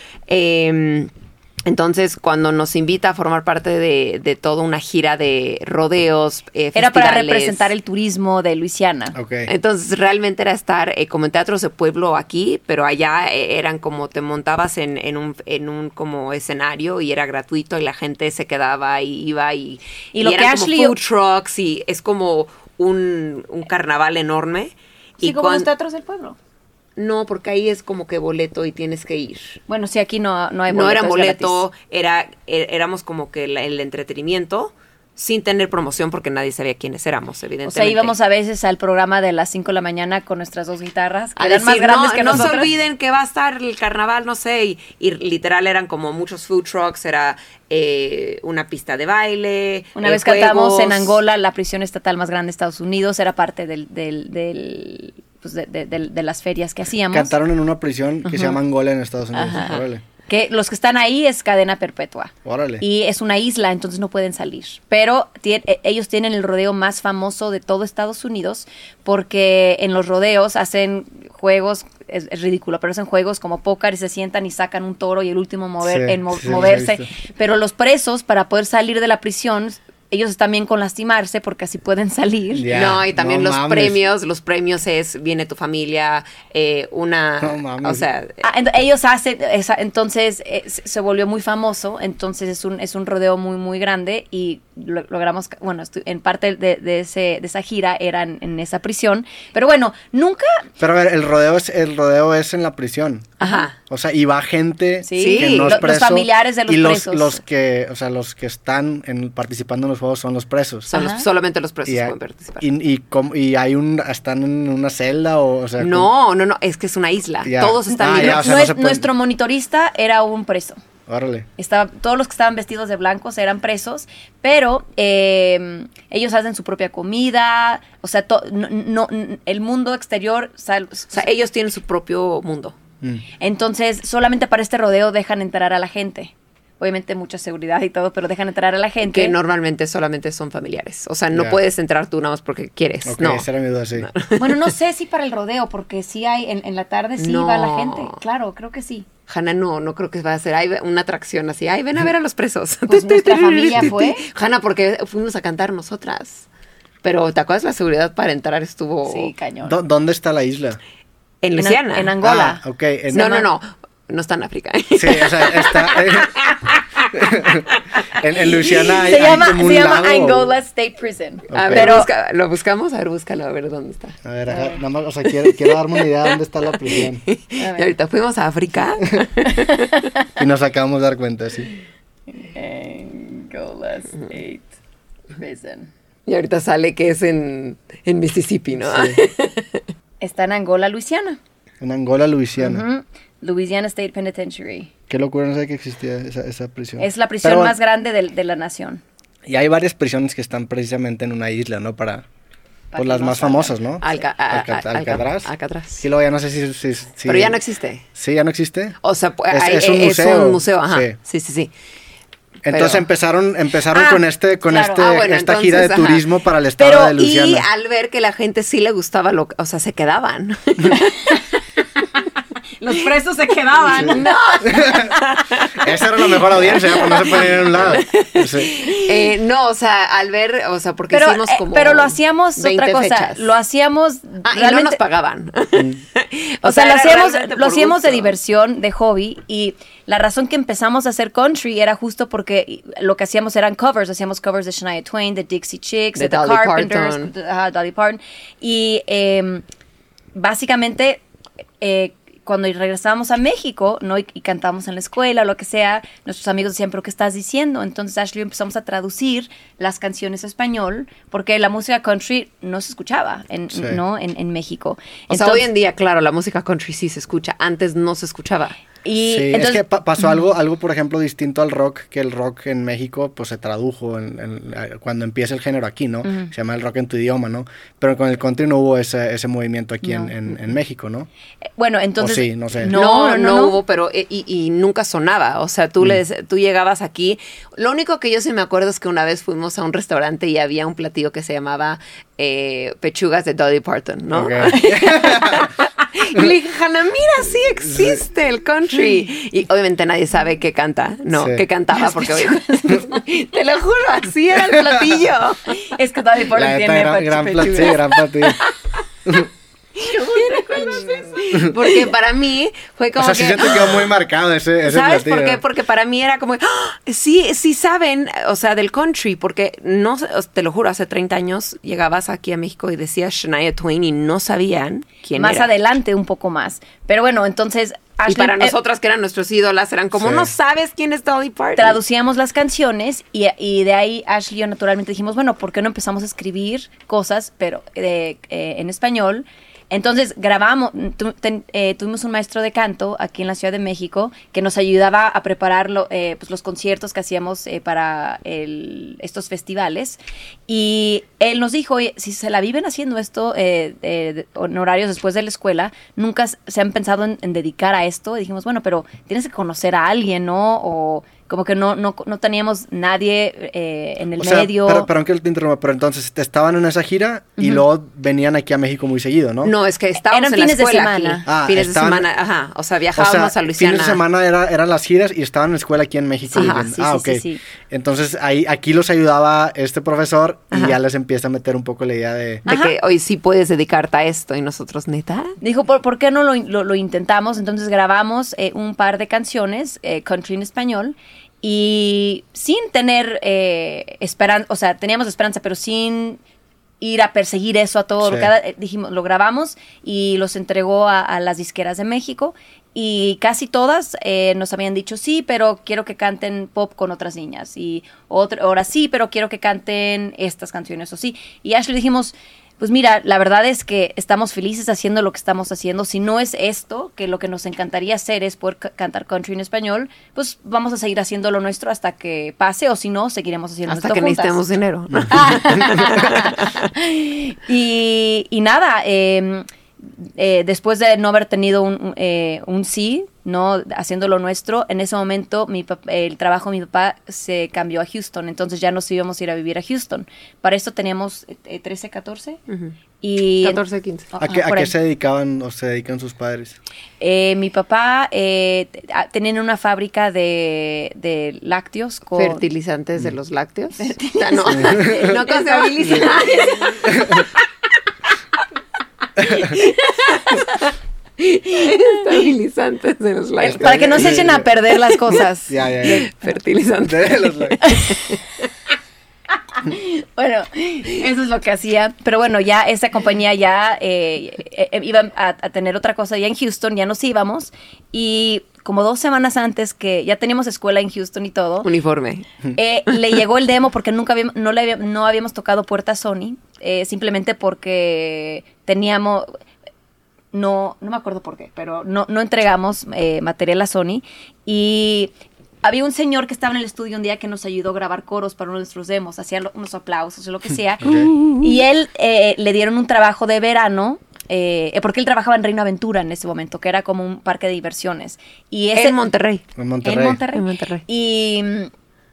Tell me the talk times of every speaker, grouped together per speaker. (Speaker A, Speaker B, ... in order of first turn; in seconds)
Speaker A: 0.3-1.1, 1.7-7.7, 9.5-25.7, 27.0-29.6, 30.7-38.1, 41.4-51.1, 82.7-88.4, 103.4-103.8, 105.2-105.8, 110.9-112.7, 115.8-118.6, 131.1-132.8, 139.1-144.7, 147.2-148.2, 149.3-156.5, 157.0-159.3, 161.4-162.2, 163.1-167.8, 171.5-174.2, 175.4-180.0, 186.3-189.8, 204.0-206.0, 207.2-208.0, 209.0-211.7, 212.7-213.1, 214.9-216.3, 217.1-221.4, 224.1-233.5, 234.4-238.3, 246.2-247.3, 265.3-268.8, 282.9-305.9, 308.4-308.7, 310.0-314.2, 314.8-325.7, 328.3-332.0, 369.6-374.2, 376.6-376.9, 380.7-381.0, 382.6-385.6, 423.9-426.8, 442.7-442.9, 443.6-444.3, 452.4-457.6, 459.5-465.2, 466.0-468.5, 481.8-482.4, 501.1-501.8, 508.9-509.6, 510.5-511.0
Speaker B: 6.8-9.2, 20.1-20.9, 25.2-26.4, 29.7-31.6, 37.6-42.7, 50.0-57.3, 58.2-58.6, 59.3-82.7, 88.4-100.7, 103.4-103.7, 105.0-107.4, 110.9-111.2, 117.9-120.8, 121.6-131.3, 133.4-139.4, 144.4-149.1, 152.9-154.2, 159.1-159.8, 161.6-163.5, 169.0-172.1, 174.5-174.8, 177.6-177.9, 182.3-184.7, 185.3-185.9, 190.2-191.4, 192.6-194.9, 197.0-199.0, 202.9-203.8, 213.9-215.1, 216.8-217.2, 222.8-225.0, 231.1-235.0, 236.6-249.6, 250.3-251.2, 251.8-265.7, 269.0-269.8, 276.2-276.5, 280.0-280.6, 281.8-283.8, 302.0-302.7, 305.9-308.0, 310.4-311.2, 325.4-328.8, 331.8-365.1, 367.6-367.8, 370.2-371.4, 376.5-377.6, 382.7-382.9, 385.6-396.4, 397.0-424.6, 425.2-442.6, 443.2-443.8, 444.3-444.9, 447.2-452.6, 454.0-456.8, 463.6-466.3, 467.9-468.2, 469.7-481.9, 482.7-489.5, 490.5-495.3, 495.8-509.3, 510.0-511.9
Speaker C: 9.2-9.5, 57.1-60.0, 62.5-62.9, 75.8-77.1, 82.5-84.0, 87.4-88.0, 100.8-103.3, 103.9-110.9, 111.9-116.1, 117.4-119.1, 121.1-121.5, 141.3-141.6, 143.1-144.1, 159.7-160.8, 162.2-163.3, 164.9-166.3, 167.1-170.5, 171.5-172.0, 174.2-177.2, 180.4-181.7, 188.8-189.2, 191.8-192.9, 195.1-197.8, 199.5-202.2, 203.0-207.6, 208.2-209.0, 209.5-211.2, 212.6-217.7, 224.7-225.2, 225.8-228.8, 263.7-264.0, 269.2-281.3, 282.2-282.9, 294.3-295.7, 297.9-298.2, 301.3-301.6, 304.7-305.2, 306.5-308.7, 313.2-315.6, 330.2-330.5, 364.4-369.7, 371.4-372.2, 373.2-382.6, 398.2-398.5, 444.4-446.8, 454.7-455.3, 457.1-457.4, 459.4-459.7, 463.7-464.7, 465.3-466.3, 467.0-467.8, 501.0-501.3, 509.8-510.4